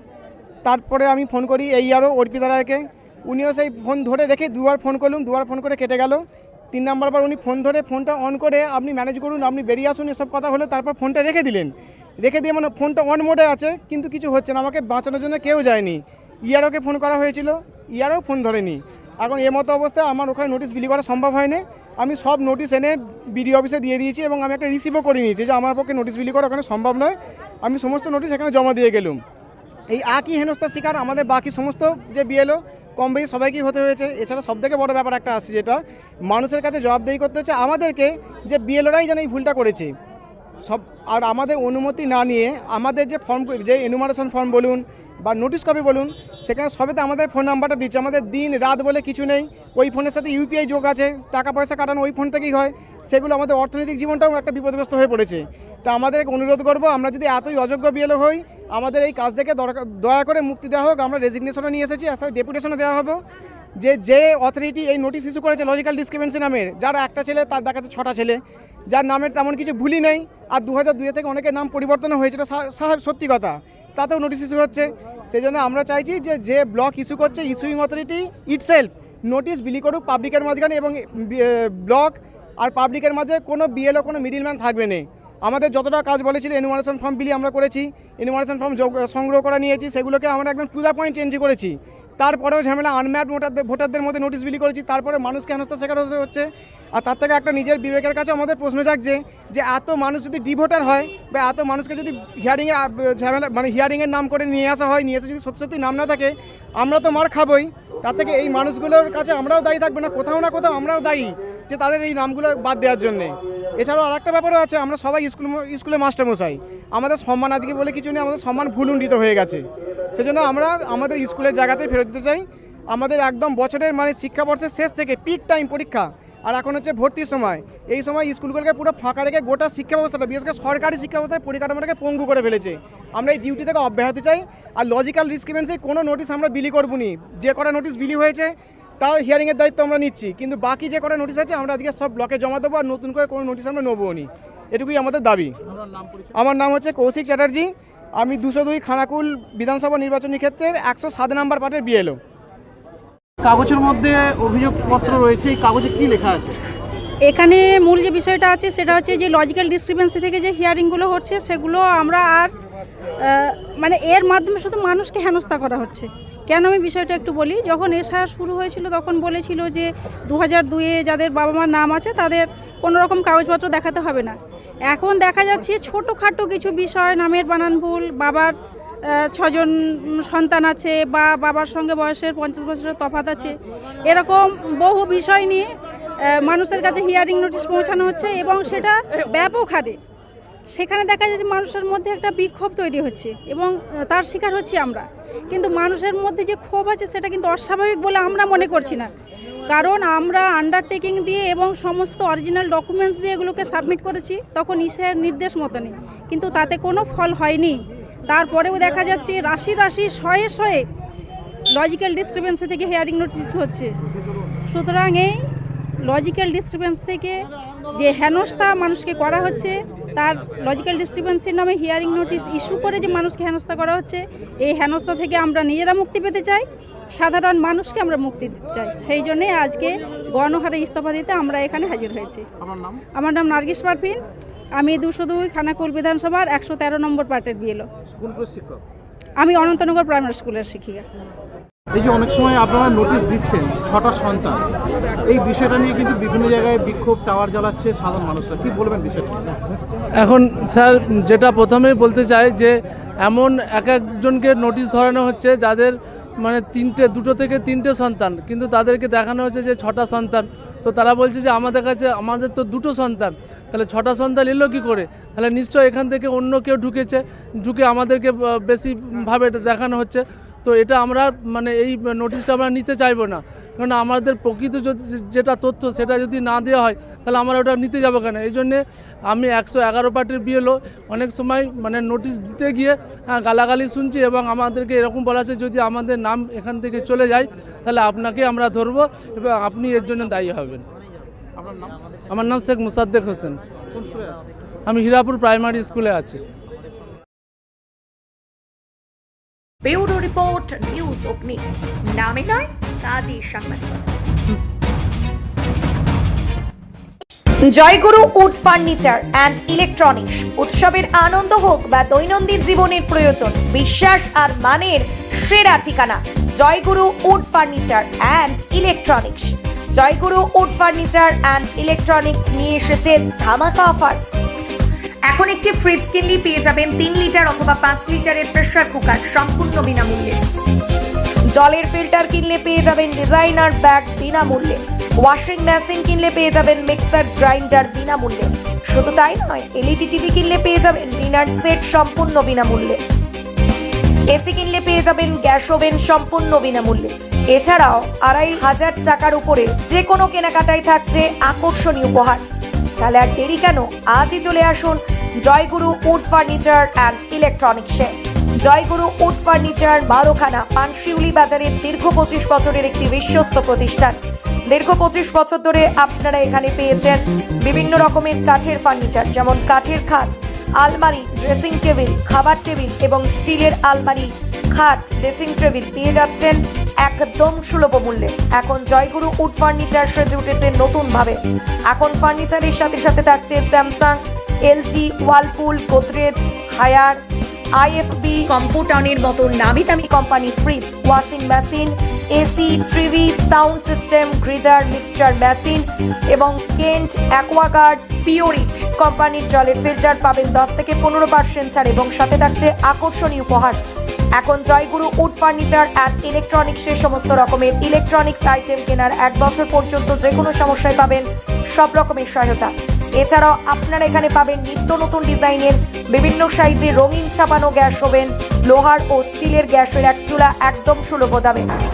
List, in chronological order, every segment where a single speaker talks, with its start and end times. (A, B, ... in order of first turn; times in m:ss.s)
0:00.6-0:29.2 A
0:29.9-0:39.9 A
0:40.7-1:03.2 A
1:03.8-2:25.6 A
2:25.7-2:26.4 B
2:26.4-2:32.2 A
2:33.4-2:36.6 B
2:37.3-2:42.5 C
2:43.2-2:54.4 C
2:54.9-2:58.5 C
2:59.3-3:03.6 C
3:04.1-3:05.7 C
3:06.3-3:10.0 C
3:10.7-3:19.1 C
3:19.7-3:30.8 C
3:31.8-3:33.9 C
3:34.7-3:35.3 C
3:36.1-3:52.4 C
3:52.6-3:53.0 B
3:53.1-3:54.2 C
3:54.8-3:57.9 C
3:58.1-3:58.8 B
3:59.4-4:01.0 C
4:01.9-4:04.6 B
4:05.2-4:09.5 B
4:10.2-4:50.9 D
4:51.6-4:52.0 B
4:52.3-4:53.6 D
4:53.9-4:54.4 B
4:54.9-4:56.4 D
4:59.8-5:01.6 E
5:02.1-5:04.1 E
5:07.7-5:24.2 E
5:25.3-5:30.4 E
5:31.5-5:43.0 E
5:44.3-5:52.4 E
5:53.0-5:58.1 E
5:58.6-6:04.2 E
6:04.7-6:21.4 E
6:21.9-6:27.2 E
6:27.8-6:43.8 E
6:44.4-7:01.7 E